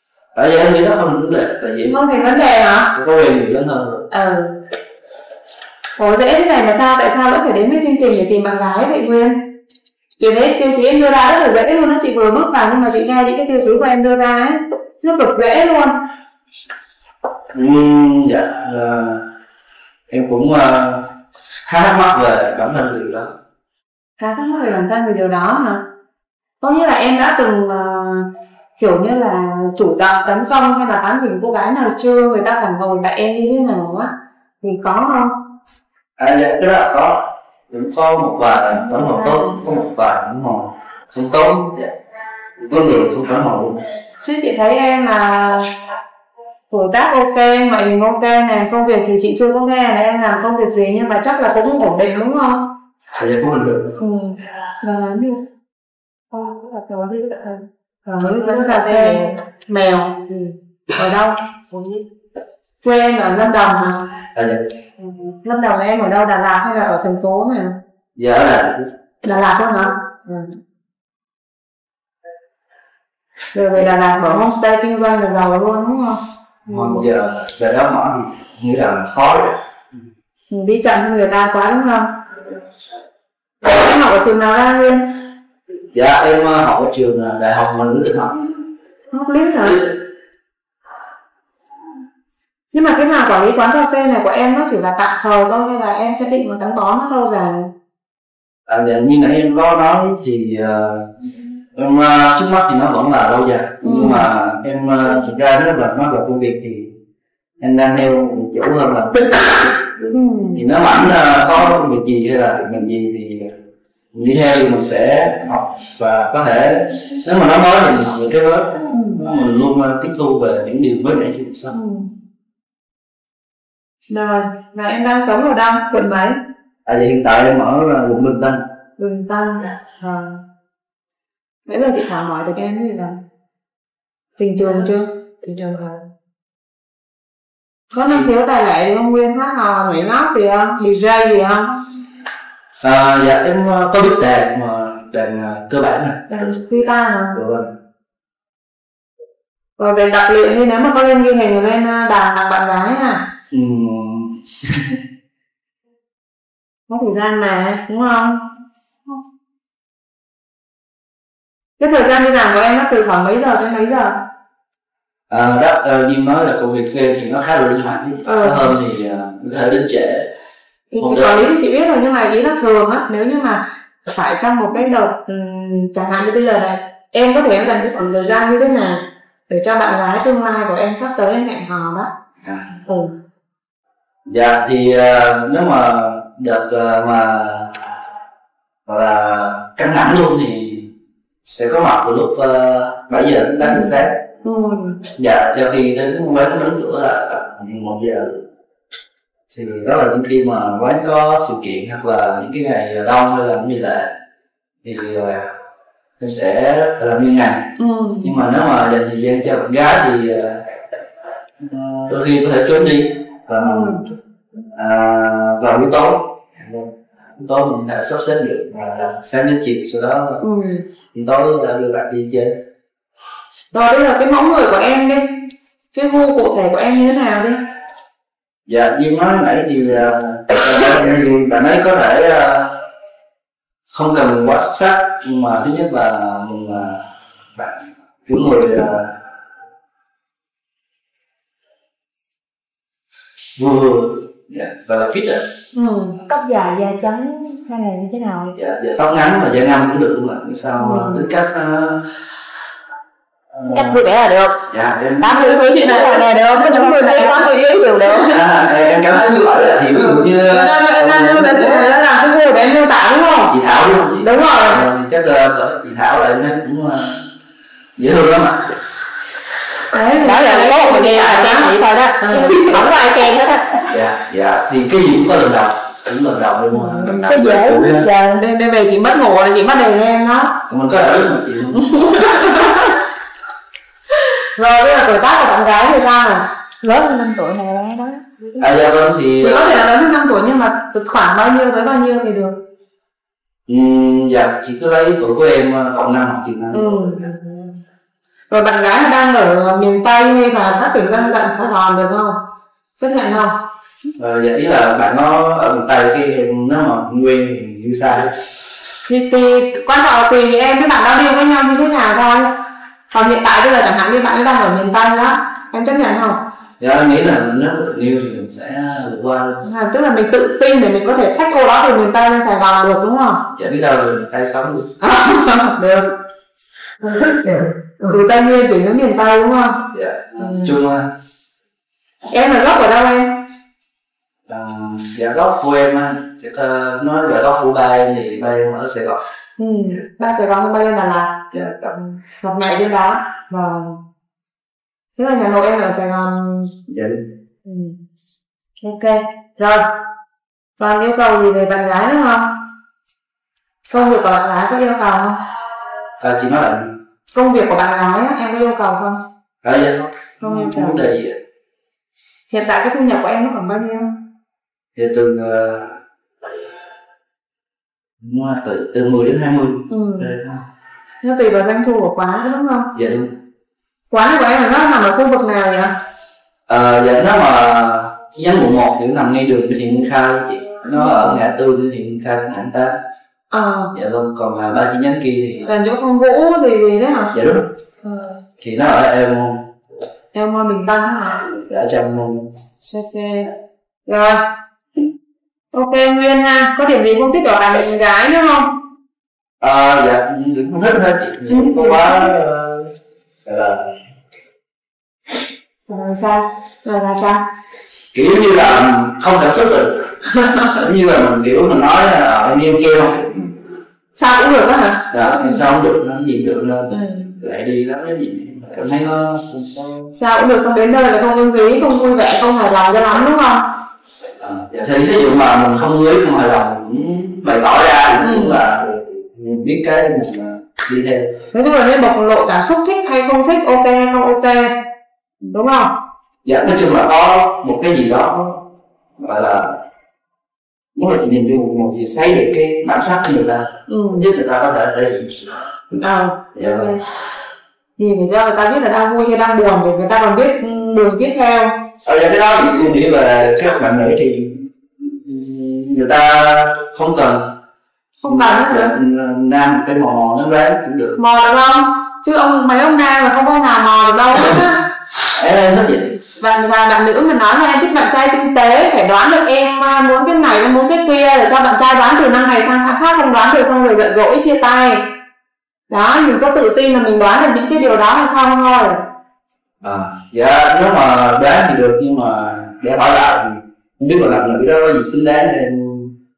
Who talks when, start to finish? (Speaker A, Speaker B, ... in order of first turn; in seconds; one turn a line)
Speaker A: 0.3-2.0
Speaker B: 1.9-2.9
Speaker A: 2.9-4.0
Speaker B: 4.1-4.5
Speaker B: 6.0-9.4
Speaker B: 10.2-15.9
Speaker A: 17.5-19.2
Speaker A: 20.1-21.0
Speaker A: 21.7-23.3
Speaker B: 24.2-25.8
Speaker B: 26.6-28.2
Speaker B: 28.8-34.1
Speaker B: 34.6-35.3
Speaker A: 36.2-41.9
Speaker B: 38.8-39.5
Speaker A: 42.6-43.8
Speaker B: 44.2-45.7
Speaker B: 46.7-52.6
Speaker A: 53.1-53.9
Speaker B: 54.0-55.4
Speaker C: 56.3-57.6
Speaker B: 58.0-61.4
Speaker C: 58.3-59.3
Speaker C: 61.7-62.0
Speaker B: 62.8-64.1
Speaker A: 64.3-64.6
Speaker B: 65.0-67.8
Speaker A: 68.2-68.9
Speaker B: 69.2-70.5
Speaker B: 73.5-76.2
Speaker A: 76.7-79.5
Speaker B: 76.7-77.0
Speaker B: 80.5-82.1
Speaker B: 83.6-85.0
Speaker A: 85.9-88.5
Speaker B: 89.1-89.8
Speaker A: 89.5-90.0
Speaker B: 92.7-97.7
Speaker A: 98.7-101.1
Speaker A: 101.7-106.9
Speaker B: 103.8-104.3
Speaker A: 107.6-110.0
Speaker B: 110.1-110.6
Speaker A: 110.5-113.5
Speaker A: 114.1-121.7
Speaker B: 121.7-122.1
Speaker B: 124.1-126.4
Speaker A: 126.8-128.6
Speaker B: 129.0-130.4
Speaker B: 131.7-133.2
Speaker B: 134.4-136.0
Speaker B: 137.9-141.7
Speaker A: 142.8-146.6
Speaker B: 146.3-147.4
Speaker A: 147.3-147.7
Speaker B: 149.8-153.2
Speaker A: 153.5-154.9
Speaker B: 156.9-158.4
Speaker B: 161.8-164.1
Speaker A: 165.3-170.3
Speaker B: 168.2-168.7
Speaker B: 170.9-182.1
Speaker A: 171.0-171.5
Speaker A: 182.4-182.7
Speaker B: 182.9-183.1
Speaker A: 184.3-187.7
Speaker A: 188.8-190.8
Speaker A: 191.4-194.1
Speaker B: 193.6-193.9
Speaker B: 194.4-195.0
Speaker A: 195.2-198.4
Speaker A: 199.5-204.1
Speaker A: 204.8-205.5
Speaker A: 206.2-207.7
Speaker B: 207.8-208.3
Speaker A: 208.2-210.6
Speaker A: 211.6-214.0
Speaker B: 213.6-214.1
Speaker A: 214.7-220.4
Speaker B: 220.4-220.8
Speaker A: 221.1-222.5
Speaker B: 223.7-225.2
Speaker B: 225.9-227.6
Speaker A: 228.7-232.7
Speaker A: 233.9-237.0
Speaker A: 237.6-239.1
Speaker A: 243.6-245.4
Speaker B: 245.8-246.2
Speaker C: 246.2-248.5
Speaker A: 248.5-252.0
Speaker A: 253.5-254.0
Speaker C: 253.7-254.5
Speaker A: 254.7-255.4
Speaker C: 255.2-258.4
Speaker A: 258.3-261.8
Speaker B: 260.5-263.5
Speaker A: 263.5-267.2
Speaker B: 264.2-264.8
Speaker A: 268.0-268.6
Speaker B: 269.9-272.8
Speaker C: 270.2-273.8
Speaker A: 273.9-278.0
Speaker B: 276.8-280.5
Speaker C: 277.2-277.9
Speaker A: 280.7-282.3
Speaker B: 281.7-282.9
Speaker B: 284.6-286.4
Speaker C: 286.8-288.5
Speaker A: 288.6-289.8
Speaker B: 289.4-292.6
Speaker A: 293.7-297.2
Speaker B: 296.7-297.7
Speaker B: 298.5-302.4
Speaker B: 303.0-303.5
Speaker A: 304.2-308.3
Speaker B: 309.1-312.5
Speaker B: 313.1-316.4
Speaker A: 316.8-319.6
Speaker B: 319.6-323.4
Speaker A: 323.5-324.9
Speaker B: 325.0-326.1
Speaker B: 327.0-329.8
Speaker A: 329.9-331.1
Speaker B: 330.4-330.7
Speaker B: 332.3-333.3
Speaker A: 334.5-339.2
Speaker B: 339.6-341.3
Speaker A: 341.5-341.9
Speaker B: 341.9-343.9
Speaker B: 345.2-346.7
Speaker A: 346.9-347.2
Speaker B: 347.6-347.9
Speaker B: 348.8-349.8
Speaker B: 350.8-352.4
Speaker B: 353.9-355.4
Speaker A: 356.2-356.9
Speaker B: 357.3-359.2
Speaker A: 359.6-361.4
Speaker B: 360.4-361.0
Speaker B: 362.5-364.1
Speaker A: 364.9-365.9
Speaker A: 368.2-370.6
Speaker B: 369.9-370.3
Speaker B: 371.2-372.9
Speaker A: 372.9-373.3
Speaker B: 374.1-375.9
Speaker A: 376.7-382.9
Speaker B: 380.9-381.5
Speaker B: 383.5-383.9
Speaker A: 383.9-385.6
Speaker B: 385.6-387.3
Speaker A: 387.3-387.7
Speaker B: 388.0-388.4
Speaker A: 388.6-389.6
Speaker B: 390.3-391.4
Speaker A: 391.4-392.5
Speaker B: 392.9-393.5
Speaker B: 394.1-394.4
Speaker B: 395.7-398.7
Speaker A: 399.6-402.9
Speaker B: 401.5-402.1
Speaker A: 403.4-403.9
Speaker B: 405.9-407.4
Speaker A: 408.1-410.1
Speaker B: 410.3-410.7
Speaker A: 410.8-413.5
Speaker B: 414.1-415.6
Speaker A: 415.1-420.1
Speaker B: 416.9-417.4
Speaker B: 420.1-423.6
Speaker A: 424.4-431.3
Speaker B: 428.2-428.6
Speaker B: 431.5-434.7
Speaker B: 435.4-435.9
Speaker A: 436.4-438.6
Speaker A: 439.2-439.8
Speaker A: 440.9-445.6
Speaker B: 443.9-444.2
Speaker B: 446.0-447.0
Speaker A: 446.5-446.9
Speaker B: 448.0-451.7
Speaker A: 452.0-457.4
Speaker B: 458.2-458.9
Speaker A: 458.3-461.1
Speaker B: 461.2-464.8
Speaker A: 465.3-466.1
Speaker B: 466.4-475.0
Speaker B: 475.9-479.0
Speaker A: 479.8-486.1